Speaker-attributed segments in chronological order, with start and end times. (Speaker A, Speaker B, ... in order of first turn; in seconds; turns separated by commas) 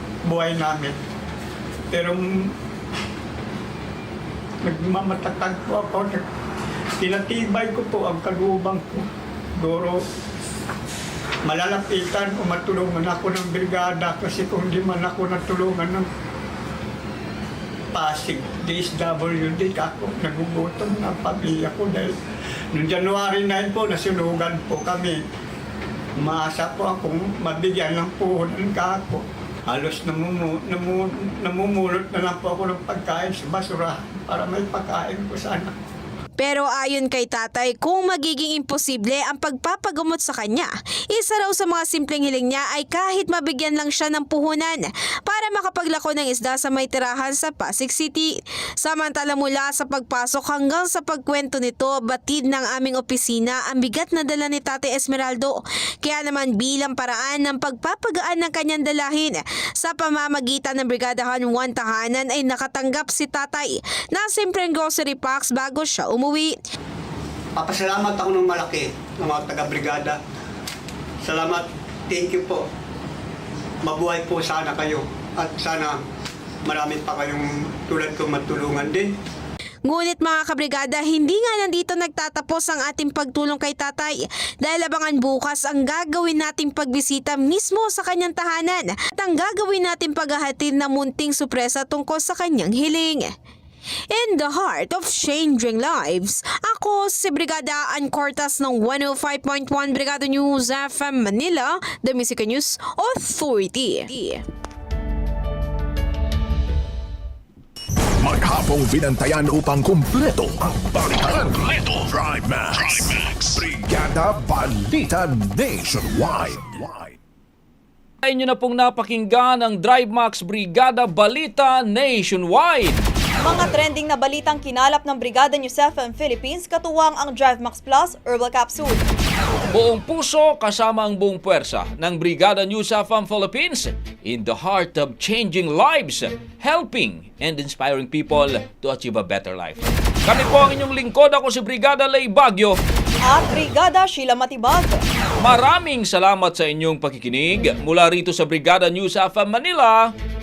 Speaker A: 0.2-1.0, Speaker A: 1.9-2.5, Speaker A: 4.6-6.3, Speaker A: 7.0-9.1, Speaker A: 9.6-10.0, Speaker A: 11.5-16.1, Speaker A: 17.9-22.1, Speaker A: 22.7-25.2, Speaker A: 26.2-35.7, Speaker B: 36.4-66.6, Speaker A: 67.6-70.2, Speaker A: 71.2-72.7, Speaker A: 73.8-76.0, Speaker A: 76.7-79.1, Speaker B: 79.9-93.3, Speaker B: 94.1-104.5, Speaker C: 108.2-117.2, Speaker D: 118.2-123.1, Speaker E: 123.4-129.1, Speaker D: 129.7-142.8, Speaker E: 143.2-145.0, Speaker D: 145.4-150.1